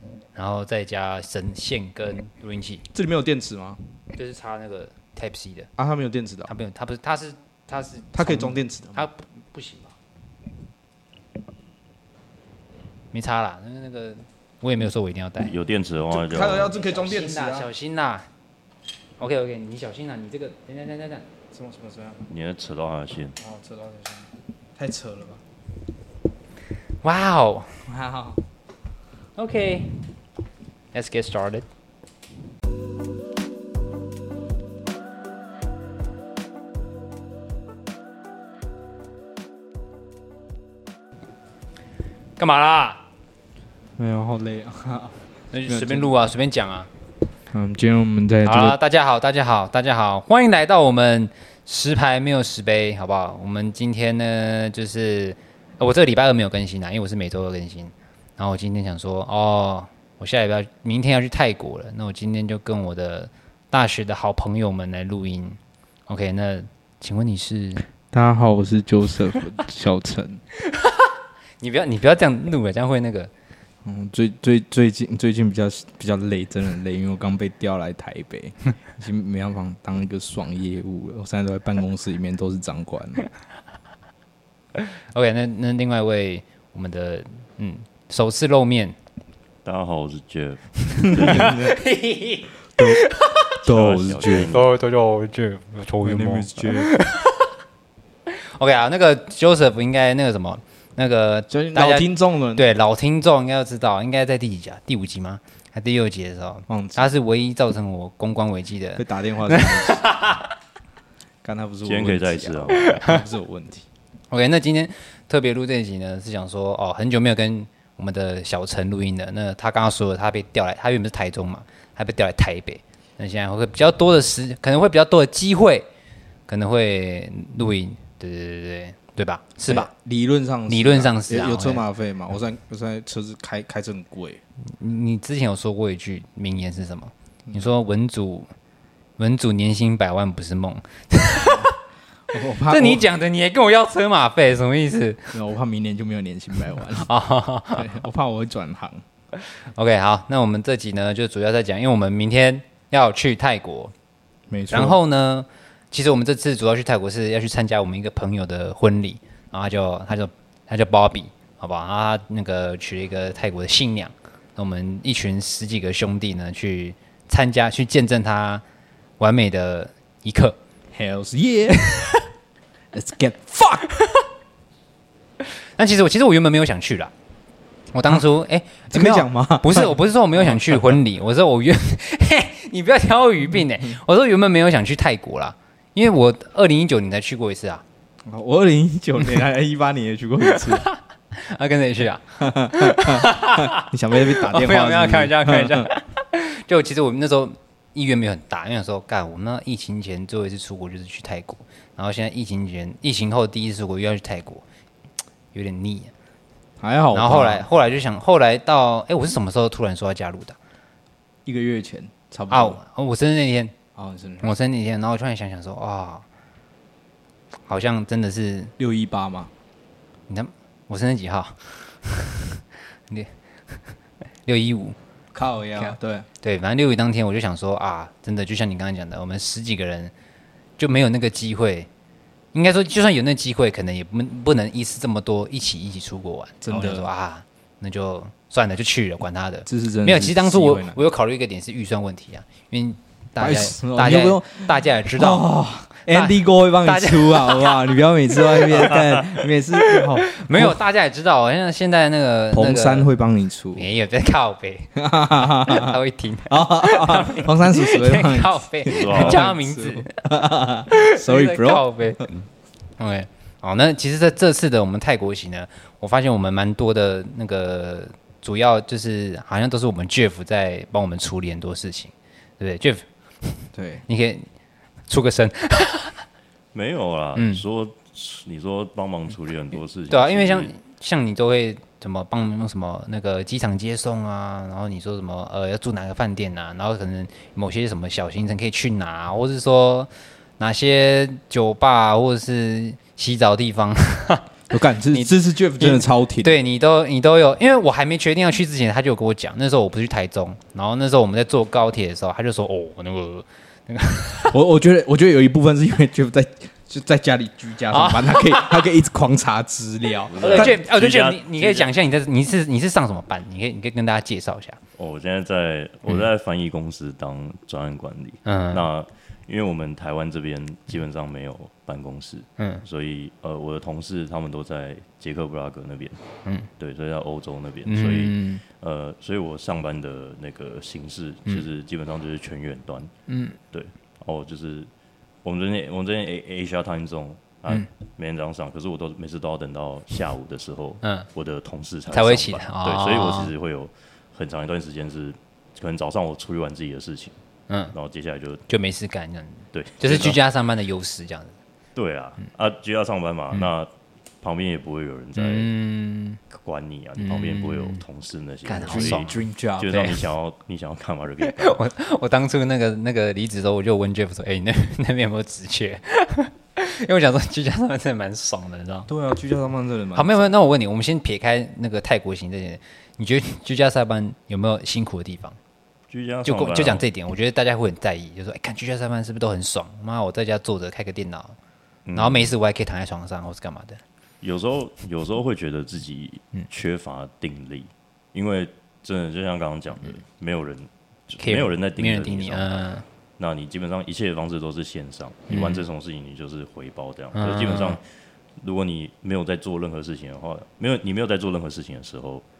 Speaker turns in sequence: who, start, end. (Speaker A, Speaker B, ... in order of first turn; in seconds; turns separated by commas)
Speaker A: 0.3-2.8, Speaker B: 2.9-3.8, Speaker A: 4.1-5.7, Speaker B: 5.8-6.5, Speaker A: 6.5-9.9, Speaker B: 8.1-9.1, Speaker A: 13.1-15.5, Speaker C: 15.5-16.7, Speaker B: 16.1-17.7, Speaker A: 16.4-18.2, Speaker A: 19.2-21.3, Speaker B: 21.5-22.3, Speaker C: 22.3-23.4, Speaker B: 23.4-25.4, Speaker A: 27.0-27.8, Speaker B: 27.9-28.4, Speaker A: 29.4-29.9, Speaker A: 30.9-31.7, Speaker A: 42.4-43.0, Speaker B: 44.0-46.1, Speaker A: 45.5-46.9, Speaker B: 47.5-48.8, Speaker A: 48.5-67.8, Speaker B: 68.1-70.4, Speaker A: 70.7-71.1, Speaker A: 71.6-73.3, Speaker B: 73.8-83.3, Speaker A: 85.1-89.0, Speaker C: 89.7-91.7, Speaker B: 91.1-91.8, Speaker A: 91.2-93.5, Speaker C: 93.6-94.7, Speaker B: 93.7-94.5, Speaker A: 94.5-97.5, Speaker B: 96.0-96.9, Speaker A: 98.6-110.5, Speaker B: 101.5-102.7, Speaker B: 106.7-107.1, Speaker B: 109.0-110.0, Speaker B: 111.4-113.9, Speaker C: 111.8-113.1, Speaker A: 114.3-125.9, Speaker A: 126.5-129.9, Speaker B: 129.7-134.4, Speaker A: 130.7-131.8, Speaker A: 134.8-138.5, Speaker A: 139.2-141.7, Speaker B: 141.3-141.7, Speaker B: 142.3-143.0, Speaker A: 142.7-145.3, Speaker B: 145.3-147.1, Speaker A: 147.1-147.9, Speaker B: 147.7-149.0, Speaker A: 149.8-153.9, Speaker B: 154.5-155.0, Speaker A: 154.7-168.6, Speaker A: 169.2-170.6, Speaker B: 170.9-172.1, Speaker B: 172.9-173.9, Speaker A: 175.8-177.1, Speaker A: 177.9-187.8, Speaker B: 178.9-181.0, Speaker B: 188.3-190.9, Speaker A: 190.5-204.6, Speaker B: 192.4-195.9, Speaker A: 205.5-206.1, Speaker B: 206.8-207.7, Speaker A: 207.1-210.6, Speaker B: 211.5-212.8, Speaker A: 212.5-213.8, Speaker B: 214.0-214.5, Speaker A: 214.4-216.2, Speaker A: 217.7-218.7, Speaker B: 218.8-219.5, Speaker A: 220.3-223.3, Speaker A: 224.5-225.0, Speaker B: 225.3-226.3, Speaker A: 225.8-230.1, Speaker A: 230.8-231.9, Speaker A: 232.5-245.5, Speaker B: 236.6-237.1, Speaker B: 239.7-241.0, Speaker B: 243.4-250.8, Speaker A: 246.1-249.1, Speaker C: 248.9-249.3, Speaker A: 249.7-253.1, Speaker B: 252.5-253.9, Speaker A: 253.8-260.2, Speaker B: 255.0-256.0, Speaker B: 256.5-262.3, Speaker C: 258.9-259.5, Speaker A: 260.9-262.2, Speaker A: 263.0-274.5, Speaker B: 273.8-274.0, Speaker A: 275.1-276.2, Speaker C: 276.7-280.7, Speaker A: 277.4-277.6, Speaker A: 280.1-294.5, Speaker B: 294.7-296.6, Speaker A: 295.1-304.6, Speaker B: 304.5-310.8, Speaker A: 307.9-308.8, Speaker C: 310.3-311.9, Speaker A: 310.4-314.8, Speaker C: 315.0-326.2, Speaker A: 318.4-318.9, Speaker C: 326.8-333.1, Speaker A: 327.9-328.6, Speaker A: 333.3-333.6, Speaker C: 333.7-334.9, Speaker C: 335.4-347.4, Speaker A: 342.1-343.5, Speaker A: 347.7-347.9, Speaker C: 347.9-348.6, Speaker A: 348.7-351.6, Speaker C: 349.7-350.4, Speaker C: 351.9-353.9, Speaker C: 354.4-355.7, Speaker A: 355.4-356.4, Speaker C: 356.5-361.8, Speaker A: 357.2-358.0, Speaker A: 358.7-359.3, Speaker B: 358.9-360.0, Speaker A: 359.9-360.2, Speaker A: 361.4-369.1, Speaker B: 369.1-370.5, Speaker A: 370.2-375.6, Speaker C: 376.1-377.1, Speaker A: 376.4-381.6, Speaker C: 382.1-382.6, Speaker A: 382.2-384.0, Speaker C: 384.4-398.0, Speaker A: 391.4-393.1, Speaker A: 395.5-395.8, Speaker A: 397.4-398.0, Speaker C: 398.6-402.4